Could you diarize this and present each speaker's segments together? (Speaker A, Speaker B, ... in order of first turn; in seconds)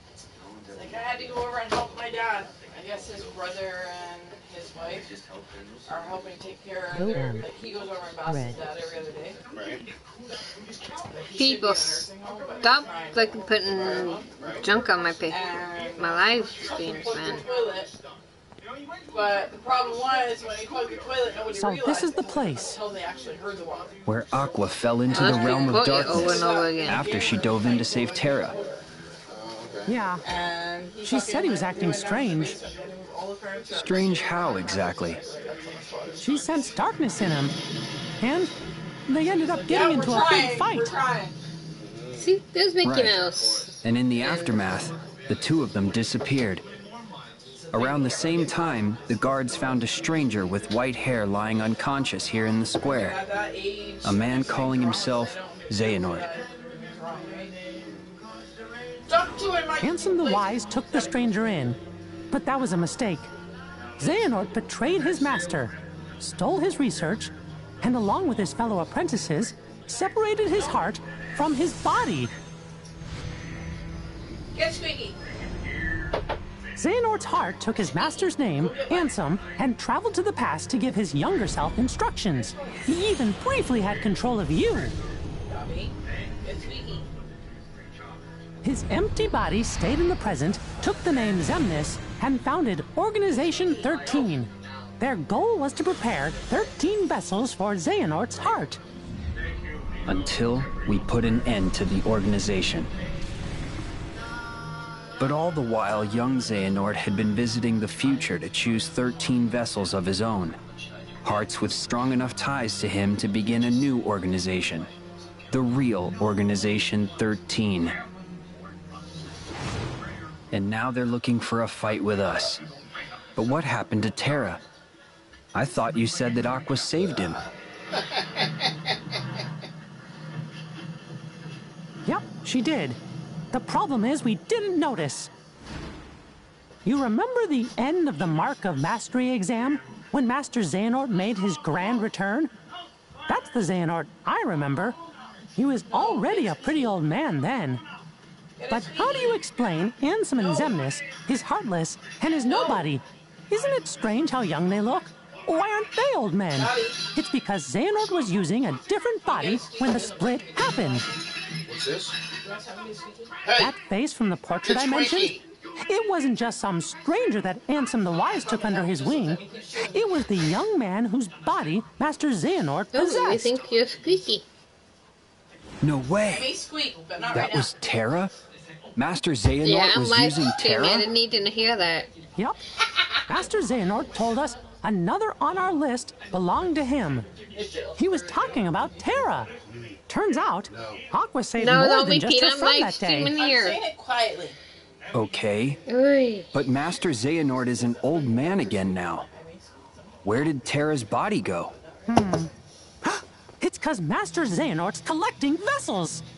Speaker A: 0.7-5.1, 5.9-9.4, 11.1-14.6, 15.3-17.9, 19.1-24.0, 25.1-28.8, 30.2-36.7, 39.2-41.4, 47.6-49.0, 52.8-57.6, 59.1-61.4, 74.5-75.2, 77.8-79.1, 85.5-87.1, 93.5-94.0, 145.9-146.9, 148.6-149.4, 150.4-150.7, 152.5-152.8, 156.6-157.0, 159.2-161.1, 162.4-163.4, 168.4-170.2, 176.2-177.7, 187.5-189.3, 193.3-194.6, 197.6-200.5, 201.7-202.5
Speaker B: 6.9-7.5, 8.3-8.6, 21.6-22.8, 29.9-30.2, 31.0-32.6, 36.2-37.5, 38.2-38.5, 39.1-40.9, 59.8-61.8, 62.3-63.3, 64.0-72.3, 76.8-85.0, 88.6-98.8, 132.1-133.0, 133.5-135.3, 136.8-142.5, 143.3-145.0, 145.6-147.8, 148.7-161.1, 163.5-173.4, 183.3-187.3, 188.0-189.5, 190.1-193.3, 202.1-202.5, 203.1-206.2
Speaker C: 9.5-9.8, 13.8-14.7, 29.3-29.9, 41.7-42.3, 161.7-162.1, 163.4-163.8, 164.6-165.4, 189.7-190.0, 190.7-191.0
Speaker D: 11.4-12.1, 12.6-17.4, 25.1-27.2, 42.1-44.8, 172.9-174.4, 179.6-182.1, 191.6-193.8, 195.9-196.5
Speaker E: 24.1-28.6, 33.7-35.2, 42.8-43.2, 43.8-46.6, 47.7-53.2, 54.0-56.3, 100.1-102.9, 105.2-110.6, 111.2-114.9, 115.5-118.0, 120.5-122.6, 123.4-124.6, 125.5-127.4, 175.8-176.5, 177.3-178.3, 178.9-181.1, 195.1-195.8, 196.5-199.3, 200.2-201.7